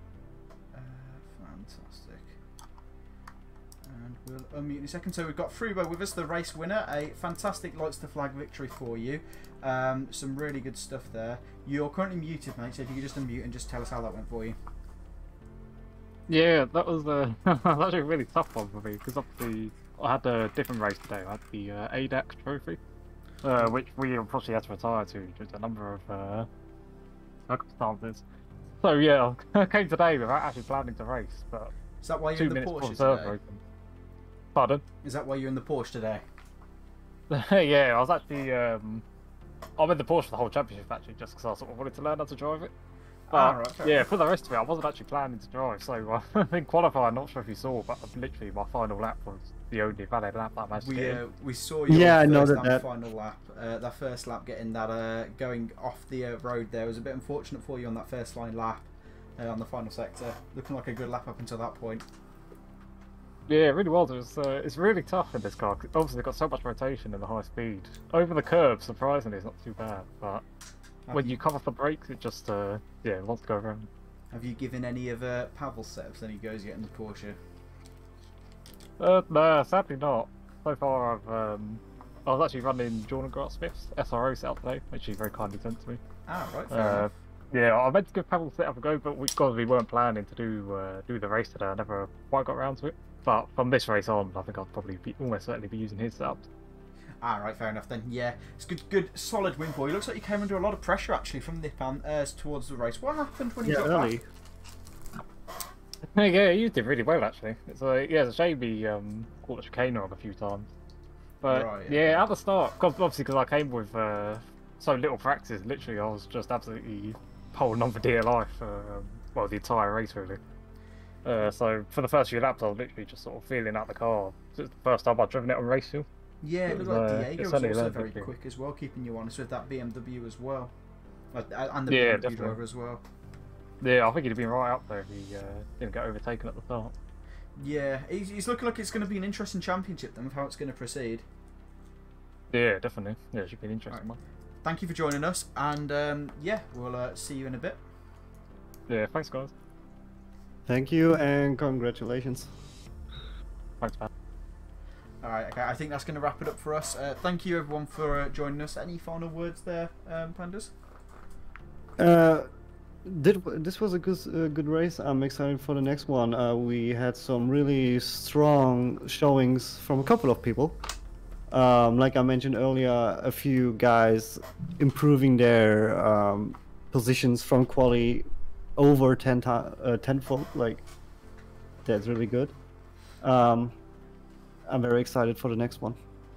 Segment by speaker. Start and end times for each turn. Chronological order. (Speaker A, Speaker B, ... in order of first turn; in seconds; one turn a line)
Speaker A: 0.7-2.4
Speaker A: 3.8-14.6
Speaker B: 16.3-22.8
Speaker B: 23.4-26.5
Speaker B: 27.5-28.2
Speaker B: 28.8-31.7
Speaker A: 32.0-33.4
Speaker B: 32.4-33.6
Speaker B: 34.5-34.8
Speaker A: 35.0-36.2
Speaker B: 37.3-39.0
Speaker B: 39.8-42.7
Speaker A: 43.3-44.0
Speaker B: 43.3-51.2
Speaker A: 50.8-62.0
Speaker C: 51.9-52.9
Speaker B: 63.5-70.4
Speaker A: 71.1-71.4
Speaker B: 71.1-73.9
Speaker A: 74.3-77.4
Speaker B: 79.0-86.0
Speaker A: 86.3-87.1
Speaker B: 86.7-96.5
Speaker A: 97.2-104.1
Speaker C: 103.6-104.2
Speaker B: 106.1-110.7
Speaker B: 111.4-120.4
Speaker A: 111.5-112.2
Speaker B: 121.2-126.1
Speaker A: 126.4-130.7
Speaker B: 126.7-128.3
Speaker A: 131.3-133.0
Speaker B: 131.9-132.6
Speaker B: 133.8-136.9
Speaker A: 137.6-141.2
Speaker B: 142.5-144.2
Speaker A: 144.6-147.8
Speaker B: 148.9-149.5
Speaker C: 150.7-152.5
Speaker B: 153.8-154.1
Speaker A: 155.2-160.7
Speaker C: 162.0-162.5
Speaker C: 163.0-170.8
Speaker C: 171.5-180.8
Speaker C: 181.8-182.5
Speaker C: 183.2-183.7
Speaker C: 184.7-186.0